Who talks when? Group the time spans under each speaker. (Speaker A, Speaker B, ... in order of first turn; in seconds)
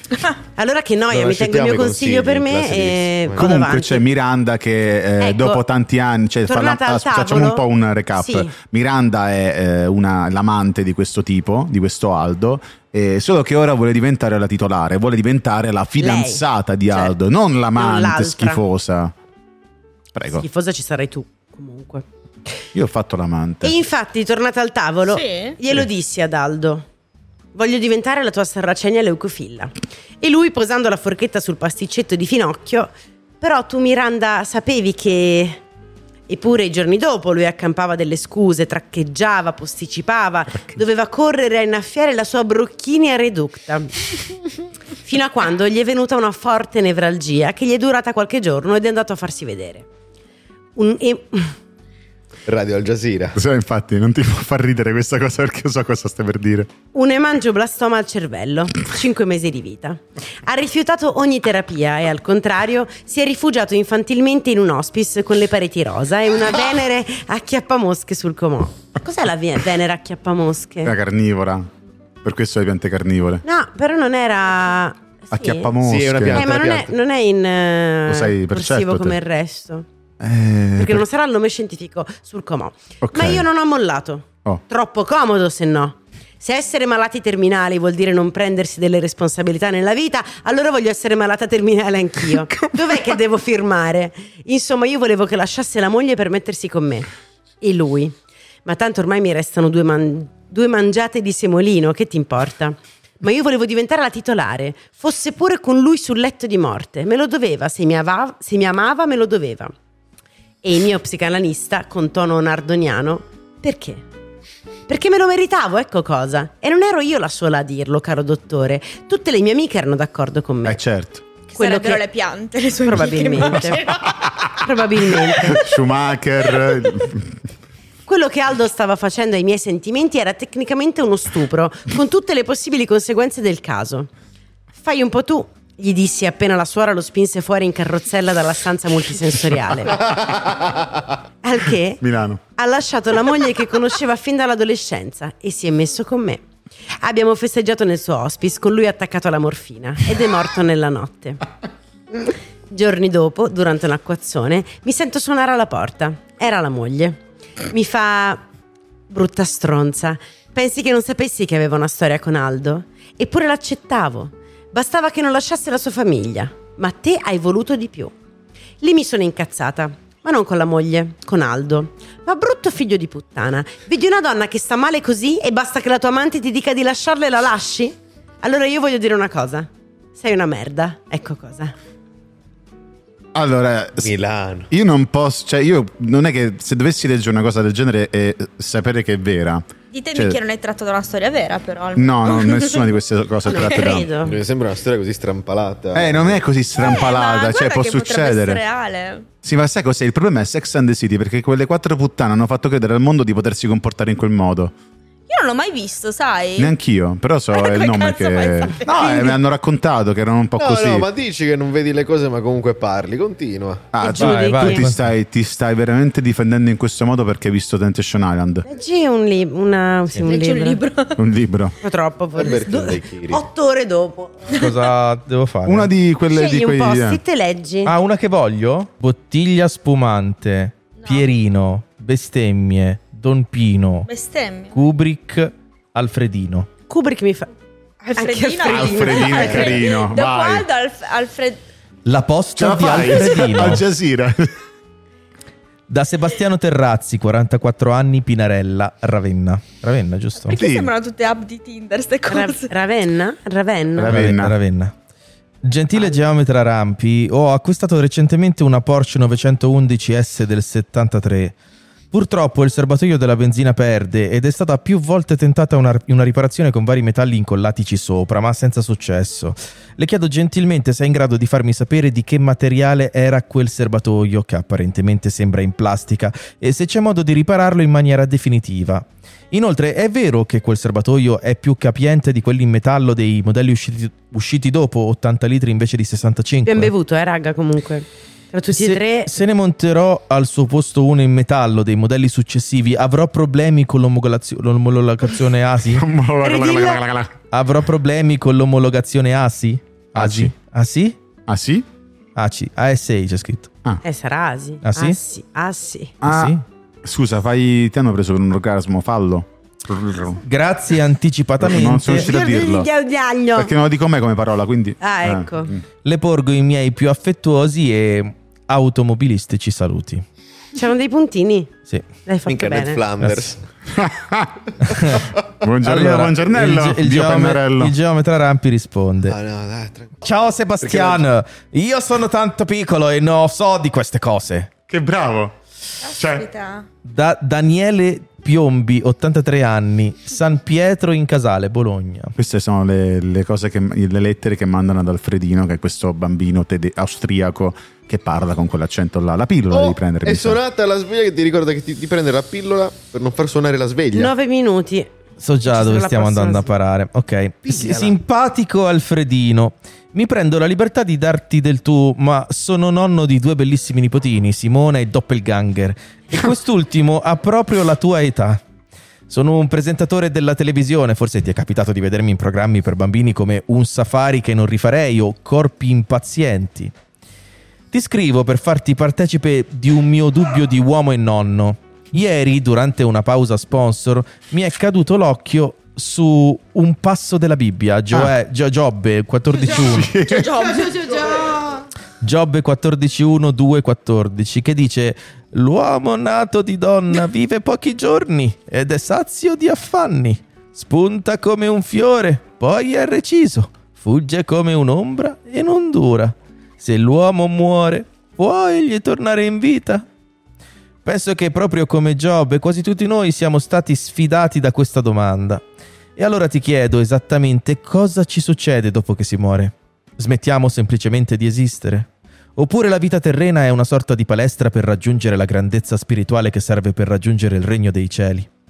Speaker A: 0.6-4.0, 5.2-5.6, 6.5-8.5, 16.0-17.1, 17.7-18.6, 20.3-22.0, 23.6-26.9, 27.5-35.6, 36.3-44.1, 45.0-49.9, 50.8-51.5, 56.9-70.9, 73.4-75.7, 76.3-79.8, 80.8-97.1, 97.6-109.7, 110.6-114.0, 114.9-120.8, 121.5-122.0, 122.9-123.8, 124.5-125.6, 128.1-134.1, 134.8-140.1, 141.4-142.0, 142.6-146.4, 147.0-151.4, 152.1-157.2, 157.7-158.4, 159.1-168.1, 168.8-181.7, 193.5-194.4, 214.0-214.8, 218.7-220.8, 221.8-224.5, 226.3-227.9, 236.9-237.5, 238.1-239.9, 252.3-254.2, 286.6-289.4, 296.4-297.0, 304.0-306.1, 312.0-313.7, 315.0-315.7, 320.7-321.7, 322.2-323.0, 354.1-355.1, 355.6-356.7
Speaker B: 1.1-3.5, 52.5-53.4, 75.8-76.9, 184.0-184.7, 194.2-196.4, 210.6-213.9, 222.4-223.5, 322.4-323.6, 329.2-330.1, 330.8-331.2, 349.7-354.3, 357.6-358.1
Speaker C: 3.4-19.1, 20.1-20.4, 22.7-23.8, 53.3-56.7, 70.8-71.7, 72.2-73.4, 75.3-76.5, 78.1-79.2, 80.2-81.0, 83.0-83.5, 120.6-121.2, 124.1-124.3, 125.4-127.4, 142.0-142.4, 183.3-184.1, 184.7-190.4, 191.9-194.2, 195.9-198.6, 199.4-204.7, 206.6-211.1, 213.9-218.6, 221.2-221.7, 225.7-227.2, 238.6-240.7, 242.6-244.5, 250.5-250.9, 253.9-254.5, 295.9-297.3, 300.1-300.5, 301.5-301.9, 306.2-310.4, 311.6-312.9, 313.5-315.8, 323.9-324.6, 325.6-327.9, 334.9-335.5, 336.1-336.5, 342.4-350.6, 389.7-390.9
Speaker D: 25.1-25.6, 121.5-124.2, 189.9-192.9, 196.8-199.3, 205.3-206.7, 207.5-209.3, 220.2-221.2, 231.0-231.2, 234.1-234.8, 238.0-241.6, 250.4-252.7, 336.0-336.9, 390.2-391.6
Speaker E: 214.2-215.1, 224.5-225.9, 227.8-234.1, 234.7-236.7, 242.1-243.8, 245.9-250.6, 254.1-254.9, 255.6-261.5, 262.1-286.9, 288.7-296.1, 297.5-301.1, 302.4-303.7, 304.8-305.2, 306.2-306.6, 310.4-312.3, 316.0-320.2, 323.2-323.6, 324.8-325.3, 325.8-329.4, 330.2-334.7, 337.0-342.3, 355.4-368.6, 369.3-376.9, 377.9-390.1, 392.2-410.1, 411.0-415.6, 416.2-428.5